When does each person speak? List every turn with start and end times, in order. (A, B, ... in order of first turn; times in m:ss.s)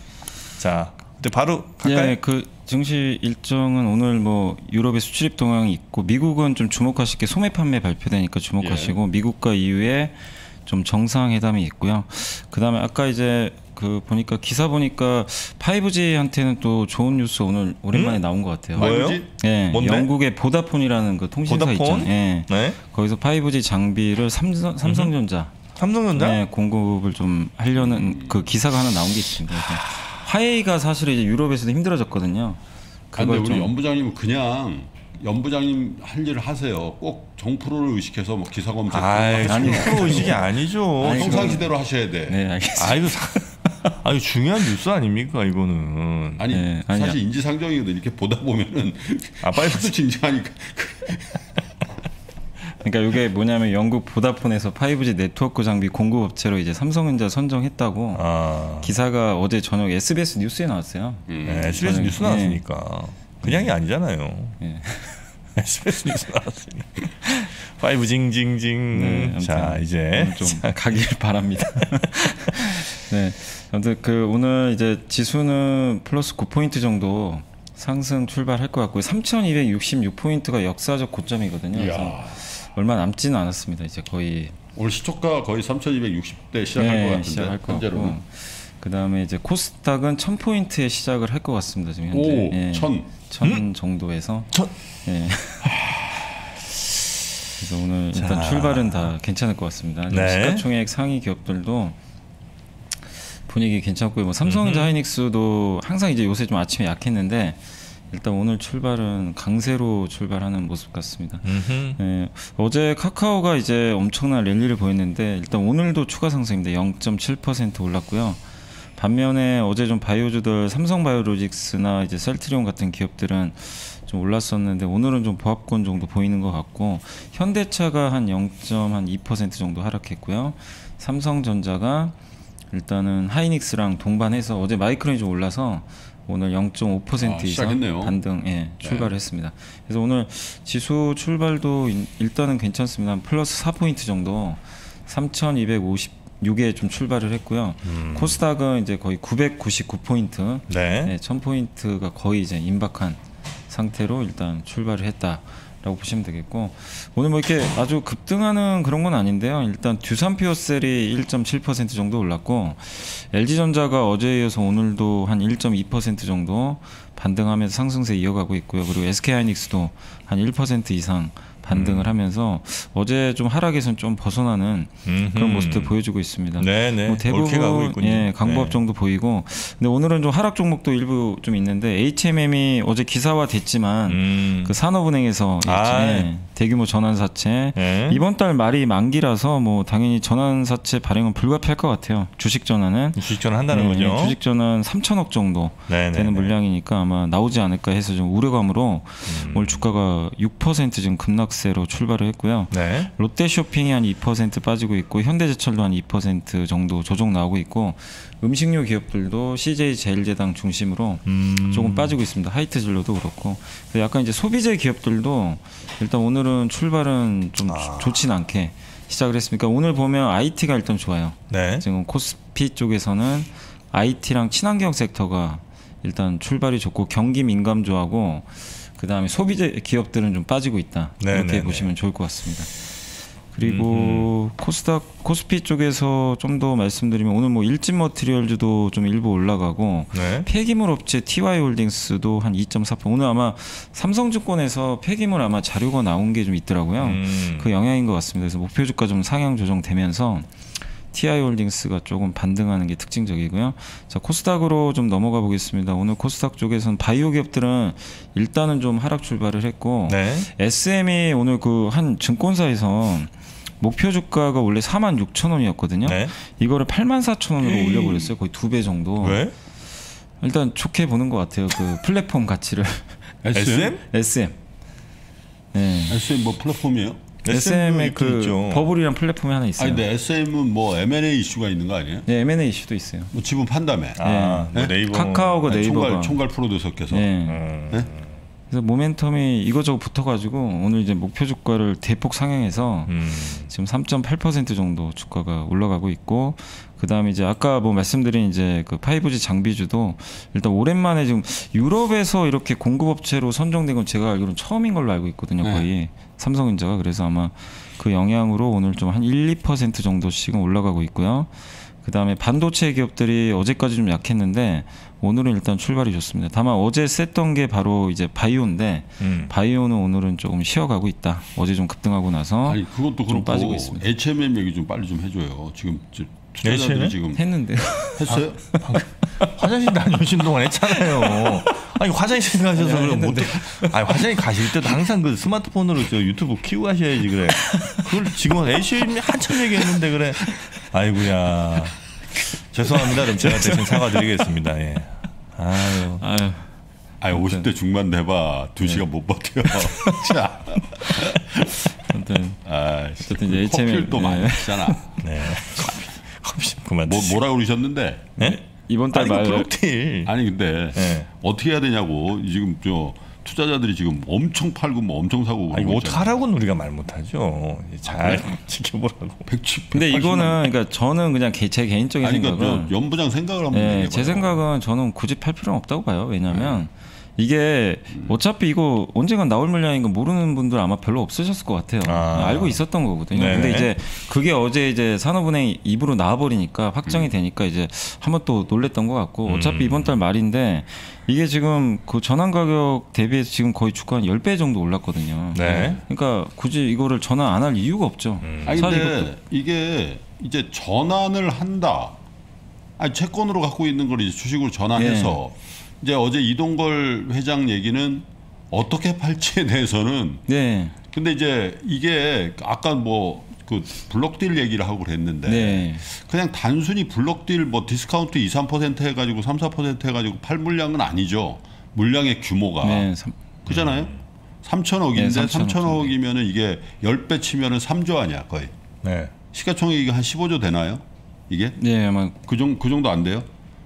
0:00.6-0:02.2 A
0:01.8-0:25.5 B
0:08.6-0:09.0 C
0:17.9-0:18.2 A
0:18.8-0:20.1 A
0:18.8-0:19.3 C
0:21.4-0:22.8 A
0:24.8-0:25.1 A
0:25.8-0:26.4 A
0:26.1-0:32.6 B
0:27.8-0:28.4 C
0:33.1-0:33.7 B
0:33.2-0:42.4 C
0:38.9-0:41.6 A
0:39.5-0:41.7 B
0:42.3-0:43.9 B
0:42.8-0:46.5 A
0:46.4-0:51.4 C
0:46.5-0:47.2 B
0:49.4-0:49.9 A
0:52.8-1:02.6 B
0:58.1-0:58.9 A
1:01.3-1:02.2 C
1:01.4-1:04.6 A
1:03.4-1:03.7 B
1:04.6-1:05.2 B
1:05.6-1:11.0 A
1:08.9-1:24.6 B
1:11.8-1:12.1 A
1:21.7-1:22.4 C
1:24.8-1:28.2 C
1:26.8-1:34.5 B
1:32.1-1:33.1 C
1:35.0-1:35.7 B
1:37.6-1:42.0 B
1:38.1-1:39.2 A
1:40.1-1:40.7 A
1:43.1-1:58.4 B
1:44.4-1:44.9 A
1:51.4-1:52.0 A
1:59.0-2:12.2 B
2:12.7-4:10.5 B
2:17.2-2:18.2 C
2:18.8-2:19.1 C
2:27.8-2:28.4 A
2:30.7-2:31.1 A
2:51.7-2:52.1 A
2:55.1-2:56.0 A
2:56.6-2:58.8 A
3:04.1-3:04.8 A
3:05.6-3:06.3 A
3:07.8-3:08.2 A
3:13.2-3:14.4 A
3:15.9-3:16.6 A
3:19.3-3:19.8 A
3:22.7-3:23.1 A
3:31.2-3:32.2 A
3:37.7-3:38.2 A
3:41.5-3:41.8 A
3:51.2-3:52.0 A
3:53.6-3:54.3 A
4:00.1-4:00.5 A
4:07.0-4:07.7 A
4:11.1-4:29.5 B
4:20.1-4:20.5 A
4:26.0-4:26.3 A
4:27.6-4:28.3 A
4:29.2-4:29.5 A
4:30.4-4:33.3 B
4:33.4-4:34.0 C
4:33.5-4:34.0 A
4:34.1-4:34.6 B
4:35.7-4:36.2 B
4:36.1-4:37.2 C
4:37.4-4:38.9 A
4:37.5-4:40.0 B
4:39.8-4:42.3 C
4:42.3-4:43.3 B
4:43.3-4:44.2 C
4:44.2-4:45.6 A
4:44.2-4:46.4 B
4:44.7-4:45.0 C
4:45.7-4:47.3 C
4:47.1-4:47.6 B
4:47.5-4:48.4 A
4:48.7-5:24.1 B
4:53.1-4:53.7 A
5:19.2-5:19.5 A
5:22.6-5:28.8 C
5:26.6-5:27.2 A
5:27.3-5:29.5 B
5:28.3-5:42.0 A
5:30.9-5:31.9 B
5:32.8-5:34.2 B
5:37.7-5:38.1 B
5:42.7-5:46.2 A
5:42.9-5:44.2 B
5:46.0-5:46.7 B
5:47.2-5:51.9 C
5:47.3-5:47.7 B
5:49.8-5:50.3 B
5:51.0-5:51.2 B
5:52.1-5:52.6 B
5:52.6-5:55.2 C
5:53.2-5:56.0 B
5:55.2-5:57.4 A
5:57.0-5:58.3 C
5:58.4-5:59.7 B
5:58.4-6:00.3 A
6:00.2-6:06.4 C
6:01.0-6:01.3 A
6:05.7-6:09.5 A
6:08.0-6:08.5 C
6:09.5-6:10.7 C
6:09.9-6:13.0 B
6:12.2-6:14.6 C
6:13.7-6:39.3 B
6:16.5-6:16.8 C
6:22.0-6:23.9 A
6:29.4-6:30.2 A
6:35.5-6:36.0 A
6:35.6-6:36.0 C
6:38.4-6:38.9 A
6:38.6-6:42.2 C
6:43.0-6:50.5 C
6:45.0-6:45.4 B
6:50.5-6:51.0 B
6:51.1-7:03.1 C
6:55.4-6:56.1 B
7:02.8-7:03.4 B
7:03.6-7:08.7 C
7:03.7-7:04.2 A
7:05.1-7:06.1 B
7:09.0-7:09.3 A
7:09.5-7:11.8 C
7:11.8-7:12.4 B
7:12.5-7:13.5 C